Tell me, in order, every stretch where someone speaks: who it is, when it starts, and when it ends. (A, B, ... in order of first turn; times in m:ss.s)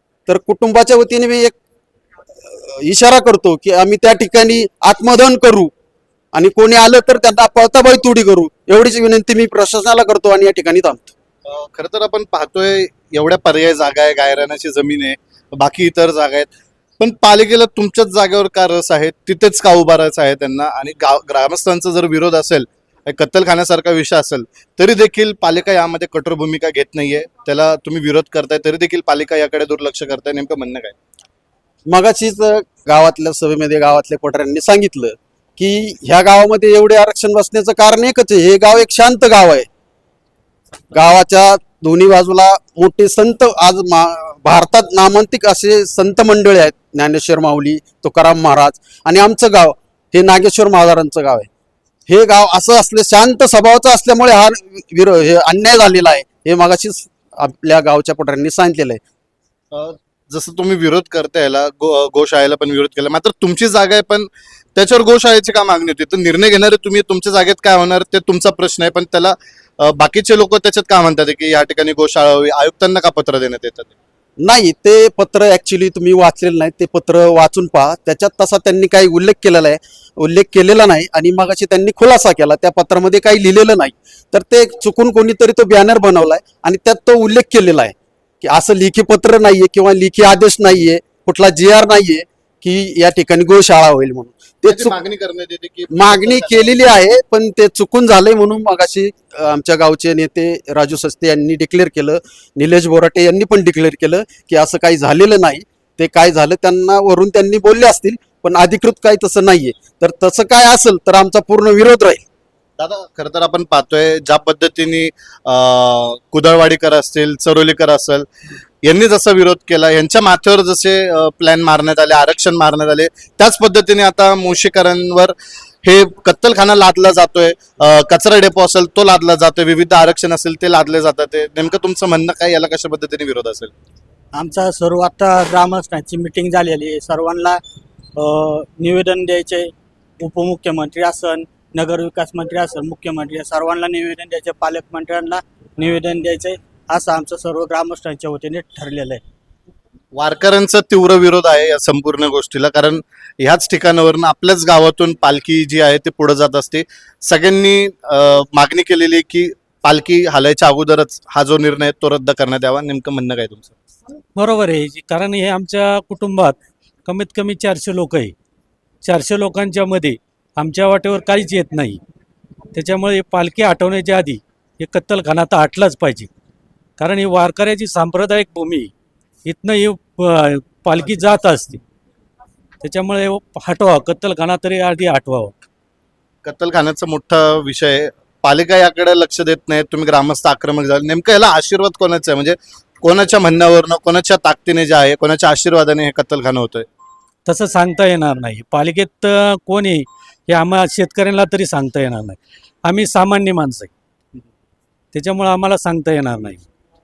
0:00.3-0:01.6 A
0:02.5-0:05.7 A
0:06.3-0:11.1 A
0:11.4-0:31.0 B
0:31.9-0:39.7 A
0:40.9-0:51.5 A
0:52.1-0:59.0 A
0:59.7-1:13.9 B
1:14.4-1:34.9 A
1:34.7-1:37.0 B
1:35.9-1:52.2 A
1:52.8-1:58.3 B
1:58.8-2:13.7 B
2:14.3-2:17.6 C
2:18.2-2:29.2 C
2:30.1-2:43.8 B
2:44.4-2:48.4 D
2:49.0-2:52.0 D
2:52.7-2:56.3 D
2:57.0-2:58.9 D
2:59.4-3:01.8 D
3:02.8-3:05.6 D
3:06.4-3:16.9 B
3:17.5-3:23.9 D
3:25.1-3:26.6 D